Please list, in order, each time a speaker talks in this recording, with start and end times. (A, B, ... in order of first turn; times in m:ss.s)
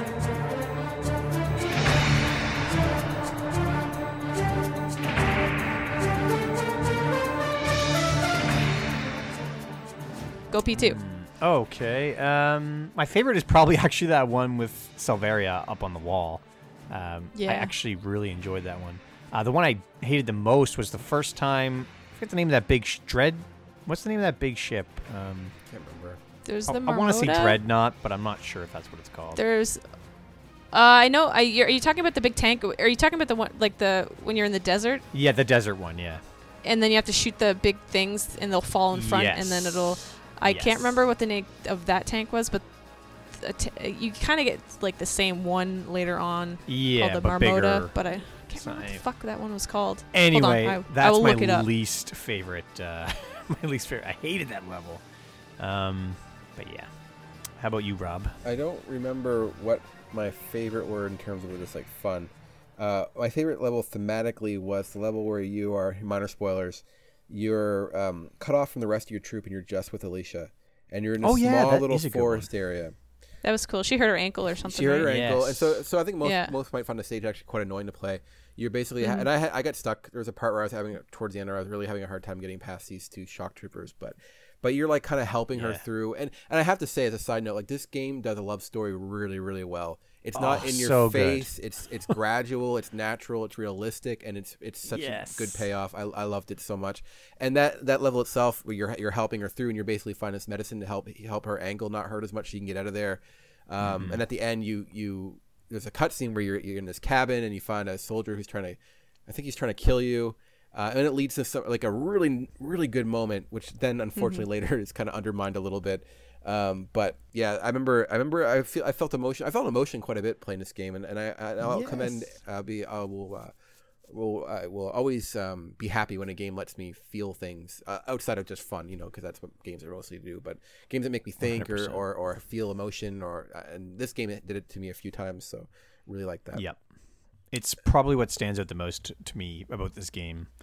0:10.5-0:11.0 A
0:10.7-0:25.5 B
0:17.3-0:17.7 A
0:25.7-0:26.2 C
0:26.4-0:27.6 A
0:26.7-0:29.4 B
0:29.3-0:29.8 A
0:30.7-0:35.0 A
0:35.1-0:36.2 B
0:36.6-0:42.6 A
0:38.9-0:40.9 B
0:43.3-0:51.7 A
0:46.7-0:47.9 B
0:48.5-0:49.0 B
0:50.1-0:55.0 B
0:55.6-0:56.9 B
0:57.6-0:58.4 B
0:58.4-1:12.9 C
1:11.2-1:12.5 B
1:13.4-1:15.1 A
1:14.6-2:03.5 C
1:15.0-1:15.8 B
1:16.2-1:16.5 A
1:19.0-1:19.3 A
1:25.5-1:25.8 B
1:30.3-1:31.5 B
1:34.9-1:35.6 B
1:43.8-1:44.2 B
1:54.2-1:54.4 A
2:01.6-2:02.2 B
2:04.1-2:16.6 C
2:11.4-2:12.0 B
2:16.5-2:16.8 B
2:17.5-2:20.5 B